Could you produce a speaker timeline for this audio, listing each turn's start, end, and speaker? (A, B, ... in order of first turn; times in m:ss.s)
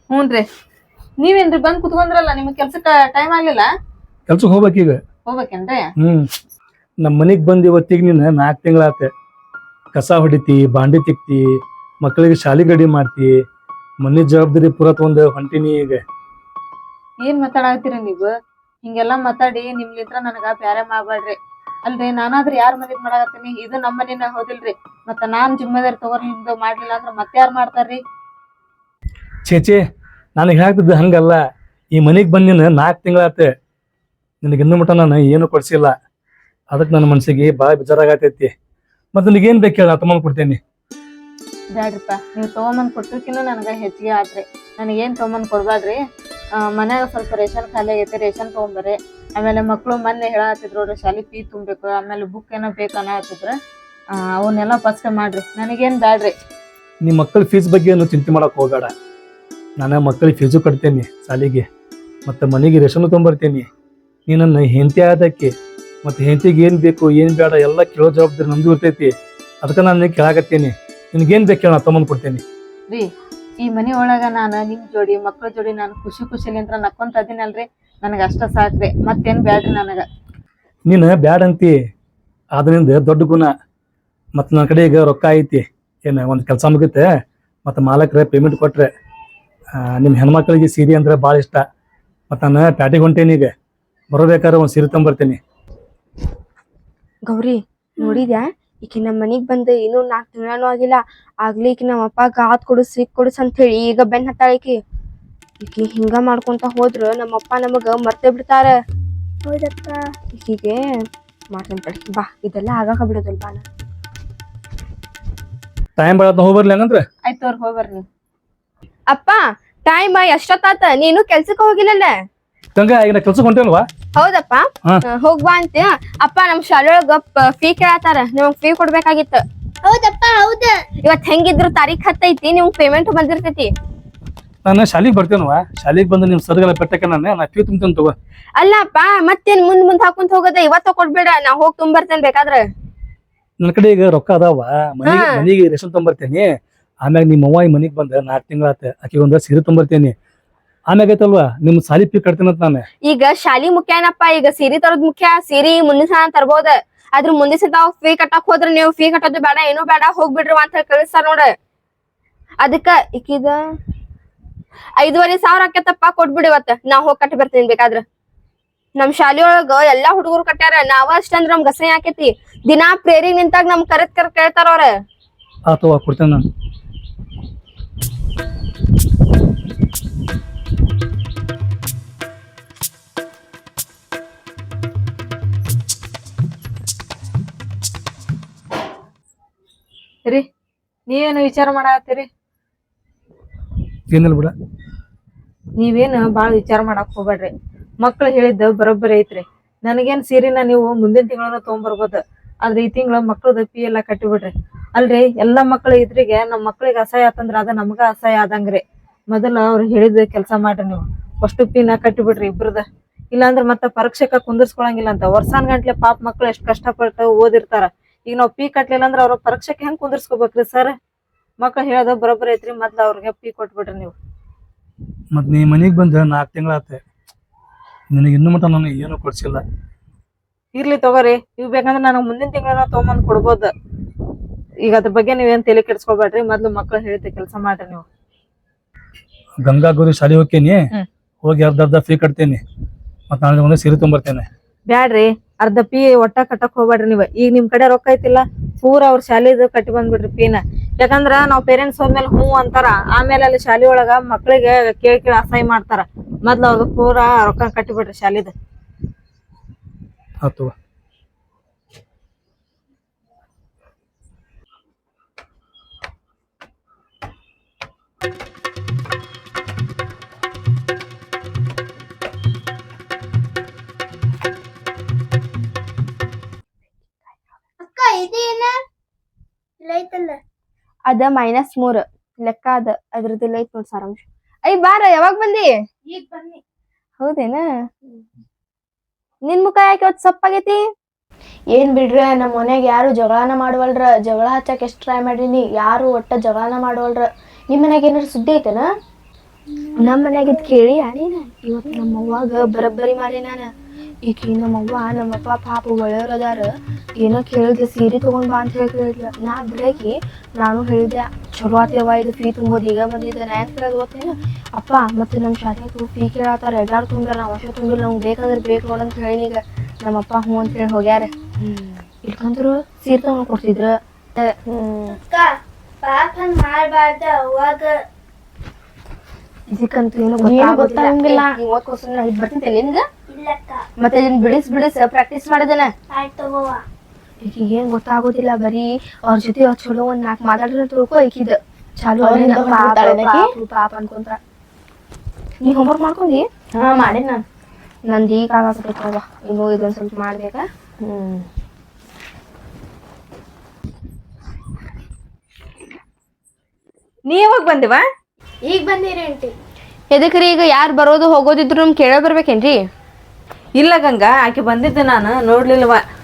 0:00.1-0:00.4 A
0:01.2-0:03.6 A
0:04.3-0:05.0 B
0:05.3-0:05.9 A
0:06.0-0:06.2 B
0:07.0-0:09.1 B
0:09.9-0:11.4 B
0:12.0-0:13.3 B
0:14.0-0:16.0 B
0:17.2-0:18.3 A
0:18.8-0:28.0 A
0:29.4-0:29.8 B
0:30.4-0:31.4 B
0:31.9-0:33.5 B
0:34.4-0:35.9 B
0:36.7-0:38.5 B
0:39.1-0:40.6 B
0:41.7-0:46.0 A
0:46.7-0:53.5 A
0:54.4-0:56.3 A
0:57.0-0:58.9 B
0:59.8-1:01.7 B
1:02.2-1:03.7 B
1:04.3-1:05.5 B
1:06.0-1:12.4 B
1:13.6-1:20.0 A
1:20.8-1:21.7 B
1:22.5-1:23.5 B
1:24.3-1:27.1 B
1:27.6-1:28.9 B
1:29.8-1:31.6 B
1:32.3-1:33.5 B
1:34.1-1:35.4 B
1:37.2-1:44.8 C
1:45.6-1:48.7 C
1:49.4-1:53.6 C
1:56.0-1:57.0 B
1:57.2-1:58.0 A
1:59.1-2:02.1 C
2:02.8-2:03.8 B
2:04.2-2:09.4 C
2:09.8-2:10.8 D
2:11.0-2:13.7 C
2:14.6-2:18.1 B
2:18.6-2:22.7 C
2:23.6-2:26.4 B
2:25.0-2:25.5 C
2:27.0-2:30.1 B
2:30.9-2:32.8 B
2:33.0-2:41.5 C
2:42.6-2:43.6 C
2:45.0-2:48.0 C
2:49.0-2:54.9 C
2:55.7-2:56.4 B
3:11.1-3:12.3 A
3:14.1-3:14.5 B
3:15.8-3:17.5 A
3:18.0-3:40.9 A
3:41.6-3:44.1 A
3:45.3-3:47.0 B
3:48.1-3:49.6 B
3:50.7-3:53.7 A
3:54.8-3:58.0 A
3:59.6-4:00.8 B
4:01.4-4:02.6 B
4:03.3-4:04.5 B
4:04.9-4:18.5 A
4:20.4-4:20.7 B
4:37.8-4:38.8 D
4:39.8-4:40.4 D
4:41.1-4:45.7 C
4:46.1-4:46.6 D
4:47.2-4:47.6 C
4:49.4-4:50.8 C
4:51.7-4:58.9 E
5:00.0-5:03.6 C
5:04.2-5:21.3 C
5:21.6-5:21.9 E
5:22.2-5:24.5 C
5:24.6-5:25.2 E
5:25.1-5:28.0 D
5:29.7-5:33.0 C
5:30.4-5:31.5 E
5:33.3-5:33.9 D
5:34.0-5:35.9 C
5:36.1-5:36.8 D
5:37.4-5:44.4 C
5:42.2-5:43.5 E
5:45.6-5:46.4 C
5:46.7-5:47.4 E
5:48.1-5:50.6 C
5:51.0-5:51.5 E
5:57.3-5:58.0 A
5:58.6-5:59.5 E
6:00.1-6:02.8 C
6:03.8-6:06.0 A